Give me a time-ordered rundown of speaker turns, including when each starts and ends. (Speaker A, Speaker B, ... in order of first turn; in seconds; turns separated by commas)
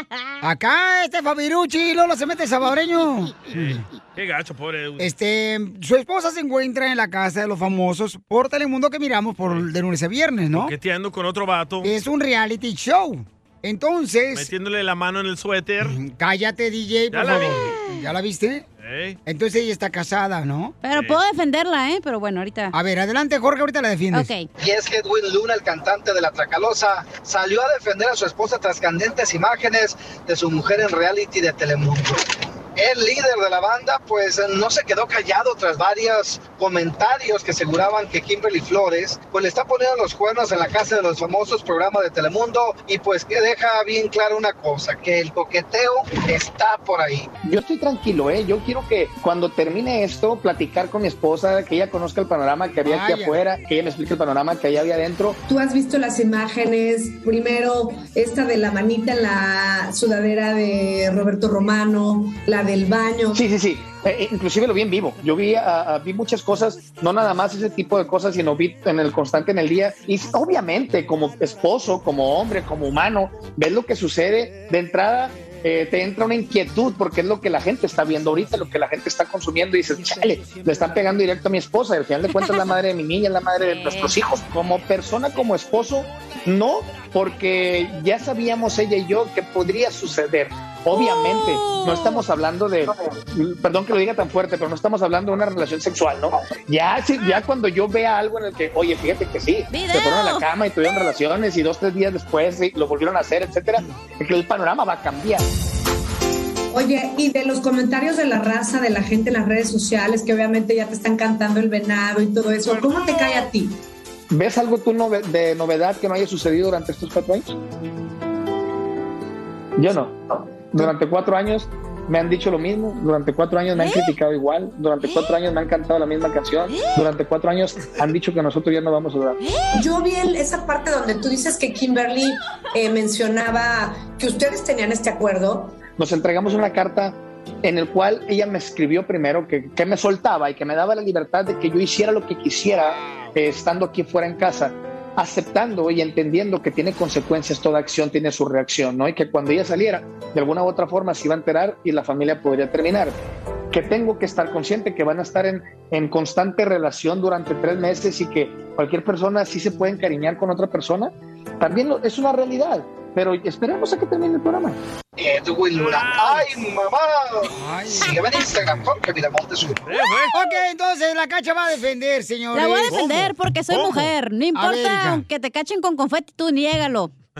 Speaker A: 0.4-3.8, Speaker B: 3.5-5.1, Speaker A: 5.0-10.7, Speaker B: 10.5-11.9, Speaker A: 11.8-14.5, Speaker B: 14.3-16.0, Speaker A: 15.8-18.6, Speaker B: 17.1-17.7, Speaker C: 17.7-18.0, Speaker B: 18.8-19.2, Speaker A: 19.2-20.7, Speaker C: 20.8-22.7, Speaker B: 20.9-21.2, Speaker A: 22.7-24.3, Speaker C: 24.1-24.5, Speaker D: 24.6-47.3, Speaker E: 47.4-55.4, Speaker A: 52.8-53.4, Speaker F: 55.5-63.4, Speaker E: 63.3-105.4, Speaker C: 83.6-84.2, Speaker C: 90.9-92.2, Speaker C: 99.7-100.5, Speaker F: 106.7-113.8, Speaker B: 112.7-113.5, Speaker E: 114.3-117.5, Speaker E: 119.8-129.4, Speaker C: 123.8-124.1, Speaker C: 126.7-127.0, Speaker F: 129.7-135.9, Speaker E: 135.9-153.2, Speaker A: 142.7-143.4, Speaker E: 153.7-164.8, Speaker D: 165.2-169.8, Speaker B: 165.8-166.6, Speaker A: 167.5-168.2, Speaker B: 169.8-170.3, Speaker A: 170.3-173.2, Speaker C: 172.5-177.1, Speaker B: 172.9-174.1, Speaker A: 174.5-175.2